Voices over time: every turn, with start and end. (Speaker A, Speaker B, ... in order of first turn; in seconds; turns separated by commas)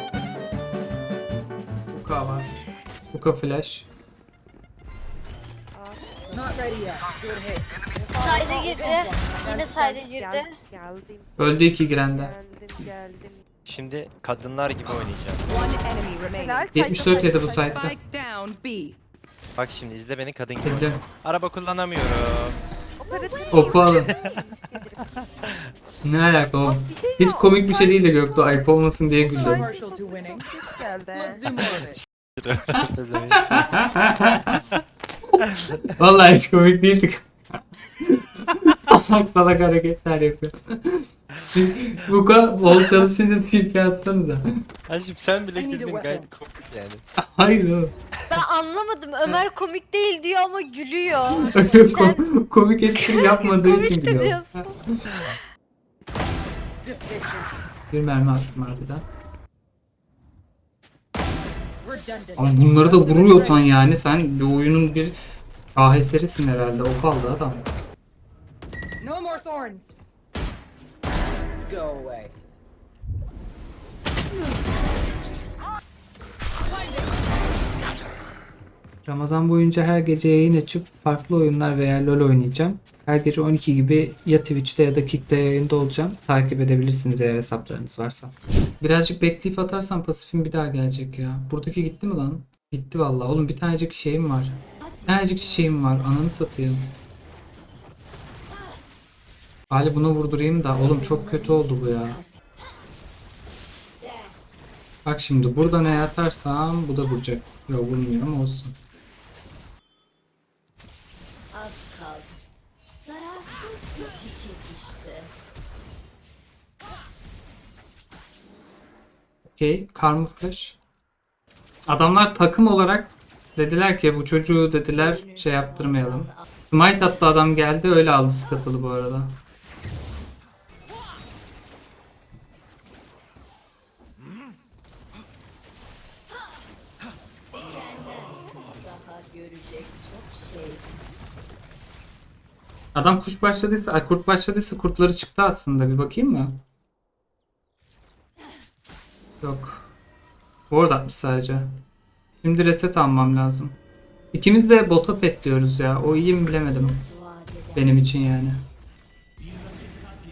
Speaker A: 1.9-2.5, Speaker A: 3.1-3.9, Speaker B: 5.8-6.7, Speaker C: 6.3-10.0, Speaker B: 8.0-8.5, Speaker D: 8.2-10.5, Speaker B: 9.7-13.4, Speaker A: 11.4-12.3, Speaker E: 13.7-15.4, Speaker C: 15.5-19.0, Speaker B: 16.4-17.5, Speaker A: 16.7-18.0, Speaker E: 19.6-22.6, Speaker A: 20.6-21.0, Speaker B: 23.0-25.2, Speaker A: 23.5-24.1, Speaker E: 23.9-24.1, Speaker A: 26.0-29.7, Speaker B: 26.6-28.6, Speaker B: 29.3-31.7, Speaker C: 29.3-30.5, Speaker C: 31.1-32.0, Speaker E: 31.7-34.0, Speaker A: 32.8-34.8, Speaker A: 35.3-37.3, Speaker A: 38.0-44.6, Speaker E: 44.9-47.0, Speaker C: 45.5-46.3, Speaker A: 47.2-47.9, Speaker D: 48.3-52.3, Speaker A: 51.5-55.3, Speaker D: 53.0-54.6, Speaker C: 56.9-57.5, Speaker A: 57.9-59.0, Speaker C: 61.8-63.6, Speaker A: 62.4-65.2, Speaker A: 65.8-67.7, Speaker C: 69.0-69.9, Speaker C: 71.7-72.3, Speaker C: 76.7-77.1, Speaker A: 79.0-96.9, Speaker F: 94.8-95.7, Speaker A: 99.7-102.2, Speaker F: 100.8-102.2, Speaker F: 104.0-104.4, Speaker A: 105.0-108.8, Speaker F: 111.5-112.4, Speaker F: 113.0-115.3, Speaker A: 119.5-120.8, Speaker A: 121.9-129.4, Speaker F: 125.0-126.5, Speaker F: 137.6-141.1, Speaker A: 142.9-146.6, Speaker A: 149.4-149.9, Speaker A: 150.7-151.7, Speaker A: 152.4-153.8, Speaker A: 154.3-157.0, Speaker F: 156.8-158.0, Speaker A: 157.8-158.6